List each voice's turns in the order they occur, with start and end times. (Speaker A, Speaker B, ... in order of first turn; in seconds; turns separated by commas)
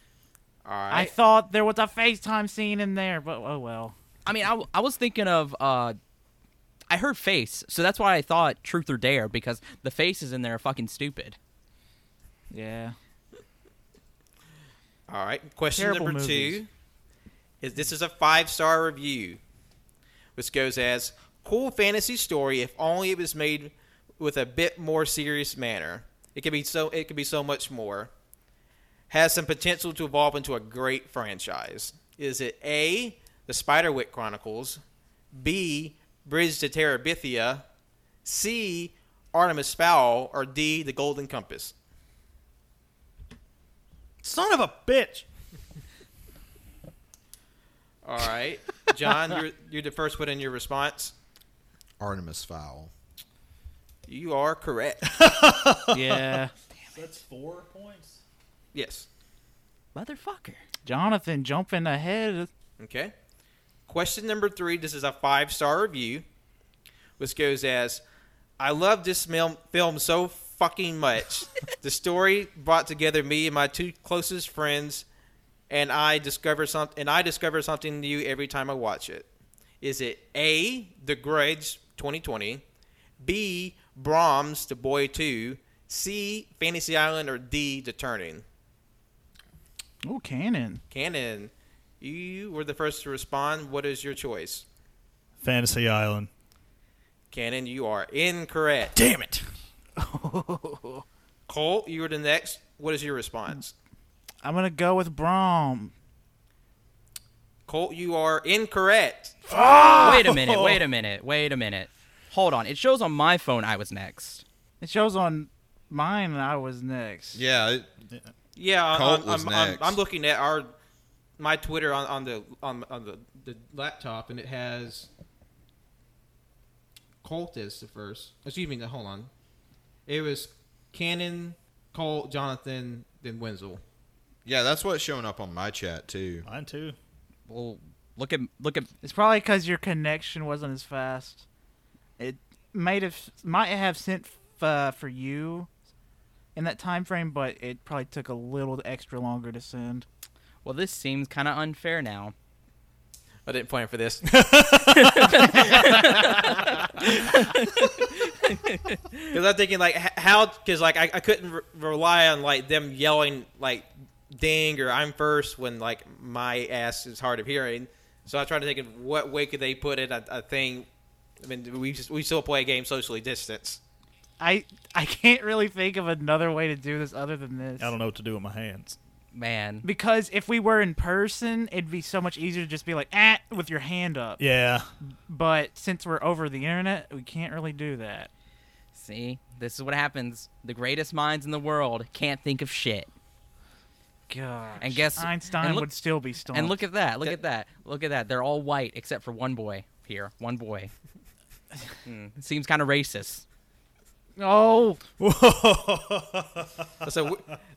Speaker A: 0.6-1.1, Speaker B: 0.9-3.9, Speaker C: 4.2-6.0, Speaker C: 6.9-11.4, Speaker B: 12.5-12.9, Speaker A: 15.1-16.7, Speaker B: 15.8-16.6, Speaker A: 17.6-19.4, Speaker A: 20.4-28.1, Speaker A: 29.1-34.8, Speaker A: 35.3-37.6, Speaker A: 38.2-41.7, Speaker D: 44.2-45.2, Speaker A: 48.0-51.1, Speaker E: 52.0-52.9, Speaker A: 54.1-55.0, Speaker D: 55.1-56.4, Speaker B: 55.9-56.5, Speaker D: 56.9-58.2, Speaker A: 58.7-59.1, Speaker C: 59.9-60.6, Speaker B: 60.8-62.5, Speaker A: 62.8-63.1, Speaker A: 63.9-66.2, Speaker A: 67.2-68.0, Speaker A: 68.6-75.0, Speaker A: 75.7-79.3, Speaker A: 79.8-82.6, Speaker A: 83.2-88.4, Speaker B: 90.0-90.8, Speaker A: 90.9-94.6, Speaker D: 95.4-96.3, Speaker A: 97.3-98.9, Speaker D: 98.9-99.5, Speaker B: 100.0-101.0, Speaker A: 101.5-103.7, Speaker B: 104.4-105.9, Speaker A: 107.7-109.4, Speaker D: 109.5-110.8, Speaker B: 109.5-110.2, Speaker C: 110.0-114.4, Speaker B: 114.8-117.4, Speaker E: 117.3-117.9, Speaker A: 118.5-120.7, Speaker E: 118.9-120.0, Speaker A: 121.4-125.1, Speaker A: 127.2-129.3, Speaker A: 130.1-133.8, Speaker E: 134.4-136.4, Speaker D: 136.4-136.9, Speaker C: 137.5-138.9, Speaker B: 139.0-141.4, Speaker B: 142.2-145.7, Speaker B: 146.5-150.1, Speaker C: 150.6-152.3, Speaker A: 153.4-154.3, Speaker D: 154.3-156.2, Speaker C: 155.0-159.3, Speaker D: 157.2-157.9, Speaker A: 159.3-170.9, Speaker A: 171.4-173.8, Speaker B: 174.4-177.9, Speaker D: 177.8-179.0, Speaker C: 179.3-179.8, Speaker B: 179.8-184.4, Speaker D: 184.4-184.9, Speaker B: 185.0-188.3, Speaker C: 188.9-193.1, Speaker B: 194.3-196.7, Speaker C: 194.8-195.9, Speaker C: 196.4-200.9, Speaker C: 202.0-203.4, Speaker B: 204.4-205.0, Speaker D: 205.2-207.1, Speaker A: 207.0-207.4